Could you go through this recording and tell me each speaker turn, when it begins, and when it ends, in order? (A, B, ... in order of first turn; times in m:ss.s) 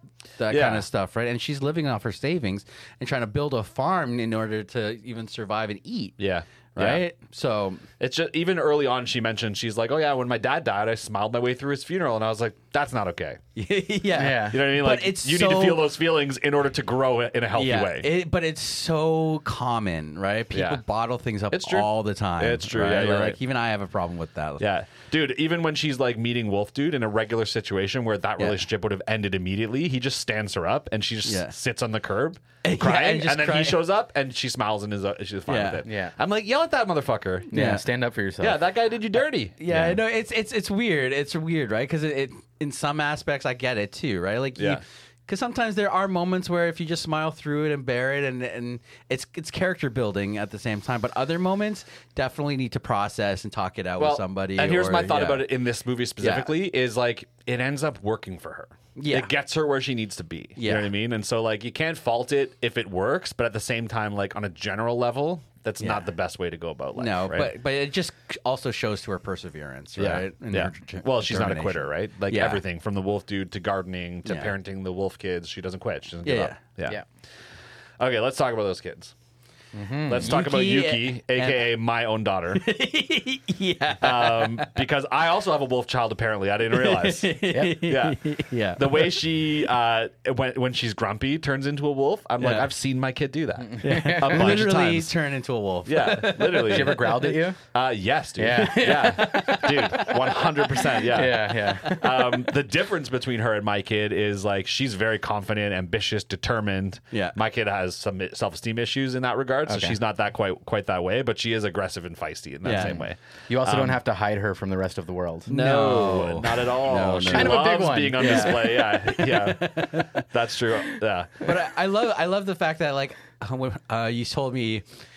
0:00.4-0:06.2 A
0:00.5-0:00.8 B
0:06.2-0:07.0 B
0:06.7-0:07.8 A
0:08.0-0:13.4 B
0:13.6-0:15.9 A
0:14.2-0:14.6 C
0:14.5-0:18.1 B
0:17.5-0:24.7 A
0:20.5-0:20.8 B
0:21.5-0:23.4 B
0:24.6-0:37.5 B
0:31.2-0:31.5 A
0:32.6-0:33.8 A
0:35.5-0:35.8 A
0:35.8-0:36.1 C
0:37.5-0:37.8 A
0:37.5-0:38.6 C
0:38.4-0:39.5 B
0:39.6-0:55.5 A
0:39.7-0:40.0 C
0:44.6-0:44.8 B
0:54.0-1:07.5 B
0:56.2-0:56.5 A
0:59.0-0:59.3 A
1:00.6-1:00.9 A
1:07.0-1:12.6 A
1:10.0-1:17.0 B
1:14.2-1:14.5 A
1:16.2-1:16.6 A
1:18.0-1:19.1 B
1:19.7-1:20.4 C
1:20.0-1:22.6 B
1:20.2-1:21.6 A
1:22.5-1:24.8 A
1:24.0-1:35.1 B
1:26.7-1:29.2 A
1:32.4-1:32.7 A
1:33.6-1:34.6 C
1:33.8-1:37.4 A
1:35.8-1:37.1 B
1:36.6-1:37.6 C
1:37.7-1:54.0 B
1:38.4-1:40.2 C
1:38.8-1:42.4 A
1:40.9-1:42.0 C
1:49.7-1:50.0 C
1:52.6-1:53.0 A
1:52.7-1:55.8 C
1:55.5-1:57.6 A
1:55.5-2:01.5 B
1:57.2-1:58.8 C
1:58.2-2:00.3 A
2:01.4-2:04.8 A